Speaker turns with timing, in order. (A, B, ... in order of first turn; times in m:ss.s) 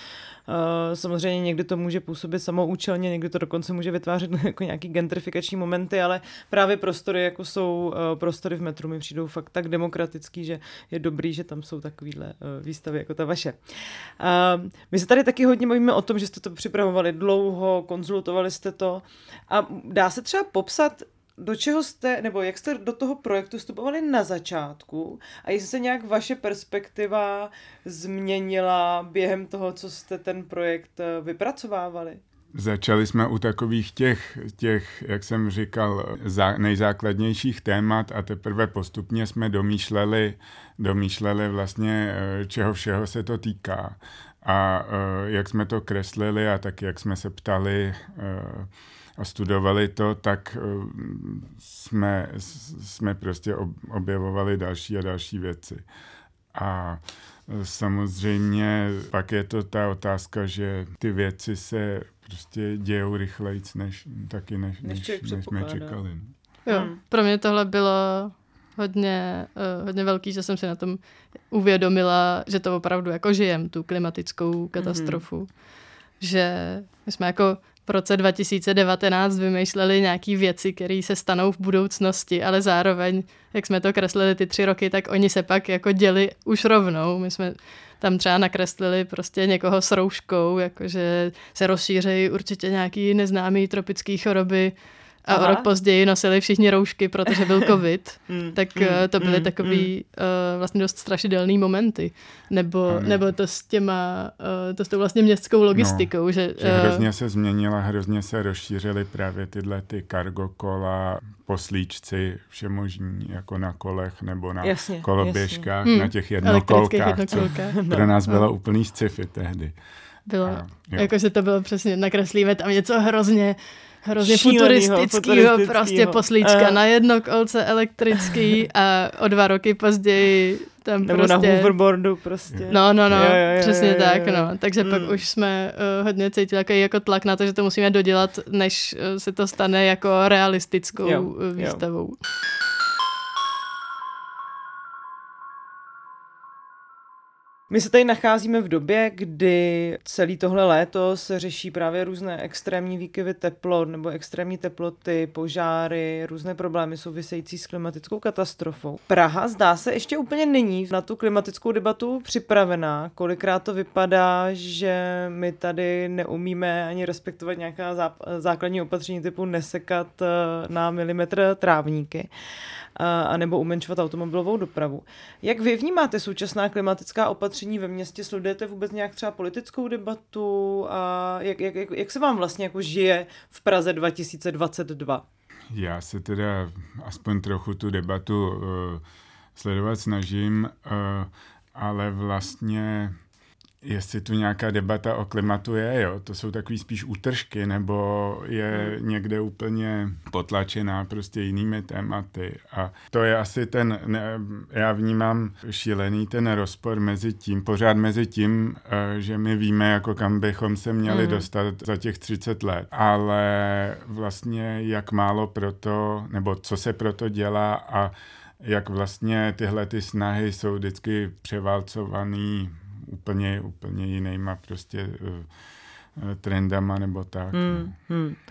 0:00.5-0:32.2 A
0:32.5-0:55.8 B
0:56.5-1:06.3 B
1:04.8-1:06.0 A
1:06.7-1:15.5 C
1:06.7-1:07.0 A
1:14.8-1:15.2 A
1:16.2-1:47.0 C
1:35.3-1:35.7 A
1:38.3-1:39.9 A
1:42.9-1:43.3 B
1:45.7-1:59.7 B
1:54.6-1:55.7 A
1:55.8-1:58.5 C
1:57.4-1:58.1 A
2:00.3-2:11.7 C
2:00.4-2:01.1 B
2:04.2-2:06.8 A
2:11.0-2:15.2 A
2:12.5-2:13.4 B
2:12.7-2:22.2 C
2:21.0-2:21.8 A
2:27.7-2:52.3 A
2:53.0-3:05.2 A
3:05.7-3:09.0 B
3:09.6-3:13.2 B
3:13.8-3:45.5 B
3:31.1-3:31.5 A
3:46.2-3:48.0 B
3:47.5-3:48.4 A